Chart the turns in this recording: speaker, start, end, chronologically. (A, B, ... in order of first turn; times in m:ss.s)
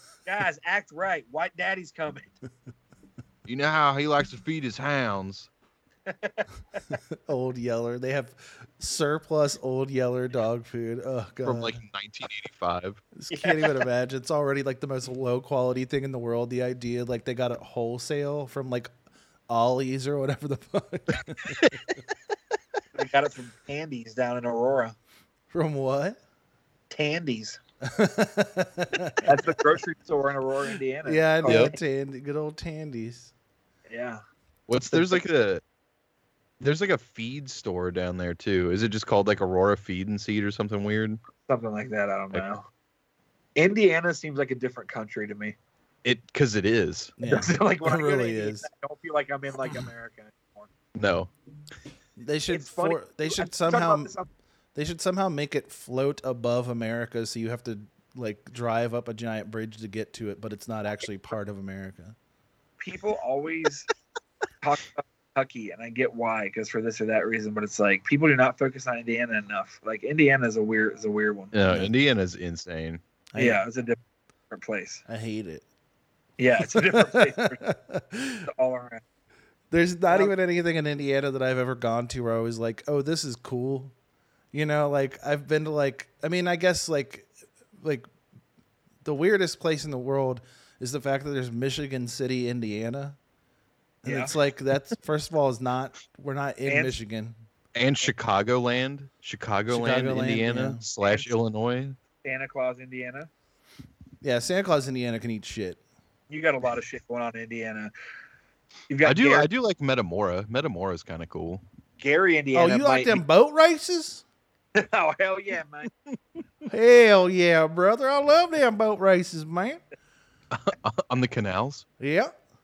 0:00.3-0:02.3 A
0:03.5-0:05.5 B
0:06.1-0:06.4 A
0:06.9-0:11.8 C
0:11.4-0:13.0 B
0:13.2-0:18.9 C
0:13.3-0:13.7 A
0:19.5-0:21.8 C
0:23.0-0:25.0 A
0:25.5-0:26.2 C
0:26.9-0:27.6 A
0:27.9-0:29.4 C
0:29.2-0:31.8 A
0:31.0-0:33.3 C
0:31.4-0:31.7 B
0:33.9-0:34.2 A
0:34.7-0:35.6 B
0:34.9-0:35.2 A
0:36.6-0:41.2 B
0:41.5-0:42.6 A
0:43.6-0:45.6 A
0:46.0-0:47.2 B
0:47.2-0:48.7 C
0:47.3-0:50.7 A
0:51.0-0:51.3 B
0:52.2-0:54.1 C
0:52.5-0:54.3 A
0:54.8-1:02.2 C
1:02.8-1:03.9 A
1:04.6-1:11.5 A
1:11.5-1:13.0 B
1:13.3-1:13.6 C
1:13.4-1:14.0 A
1:14.5-1:15.0 A
1:15.1-1:15.6 C
1:16.4-1:17.6 A
1:16.6-1:18.5 C
1:18.5-1:19.0 A
1:19.7-1:23.9 C
1:20.1-1:20.4 A
1:24.5-1:28.1 C
1:29.0-1:33.2 C
1:34.0-1:37.4 C
1:34.1-1:34.3 A
1:36.7-1:37.0 A
1:37.8-1:42.0 B
1:39.7-1:40.8 C
1:41.0-1:41.3 A
1:42.2-1:43.3 A
1:44.2-1:45.8 C
1:46.3-1:47.9 A
1:48.9-1:49.5 A
1:49.0-1:51.6 B
1:52.0-1:53.2 A
1:52.5-1:54.2 C
1:54.8-1:55.9 A
1:56.7-1:59.8 C
2:00.5-2:01.9 B
2:02.0-2:02.4 C